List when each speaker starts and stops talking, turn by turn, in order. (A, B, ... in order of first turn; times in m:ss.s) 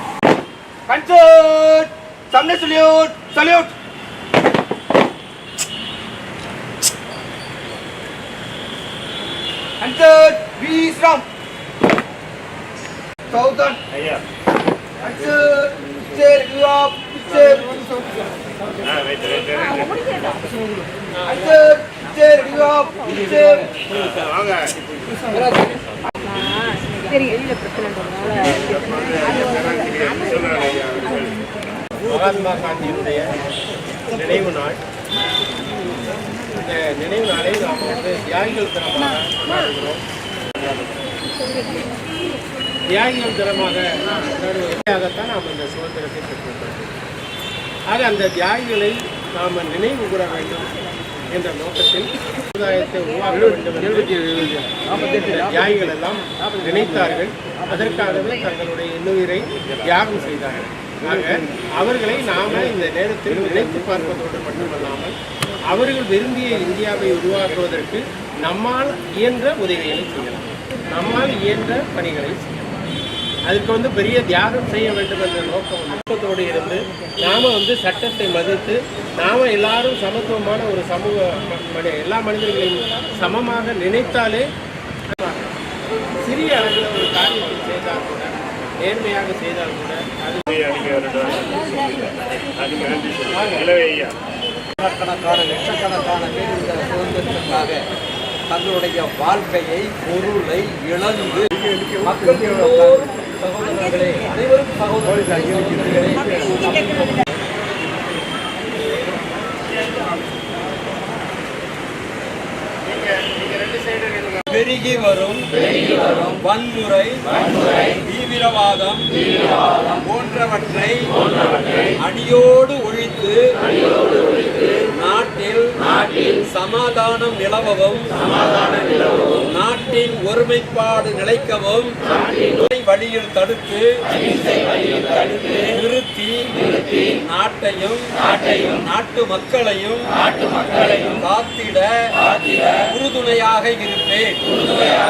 0:00.9-0:03.7 A
0:09.8-0:11.2 A
0:13.3-0:13.8 A
0:13.9-0:14.2 B
0:15.0-0:17.8 A
0:18.8-0:20.1 B
0:21.3-0:23.7 A
0:23.9-0:24.8 B
0:27.9-0:31.4 B
0:32.0-0:33.3 C
0:34.1-0:34.8 C
0:36.6-0:40.0 C
0:42.9-0:47.0 C
0:47.9-0:50.7 C
0:51.3-1:05.1 C
1:05.7-1:12.6 C
1:13.5-1:24.4 C
1:25.1-1:25.5 C
1:26.2-1:30.5 C
1:30.5-1:34.2 B
1:34.8-1:37.8 D
1:38.5-1:41.5 D
1:42.0-1:47.1 D
1:53.2-1:54.0 B
1:54.5-1:59.1 D
1:59.9-2:01.1 D
2:02.0-2:03.5 D
2:04.8-2:14.0 D
2:15.2-2:20.1 D
2:20.8-2:24.5 D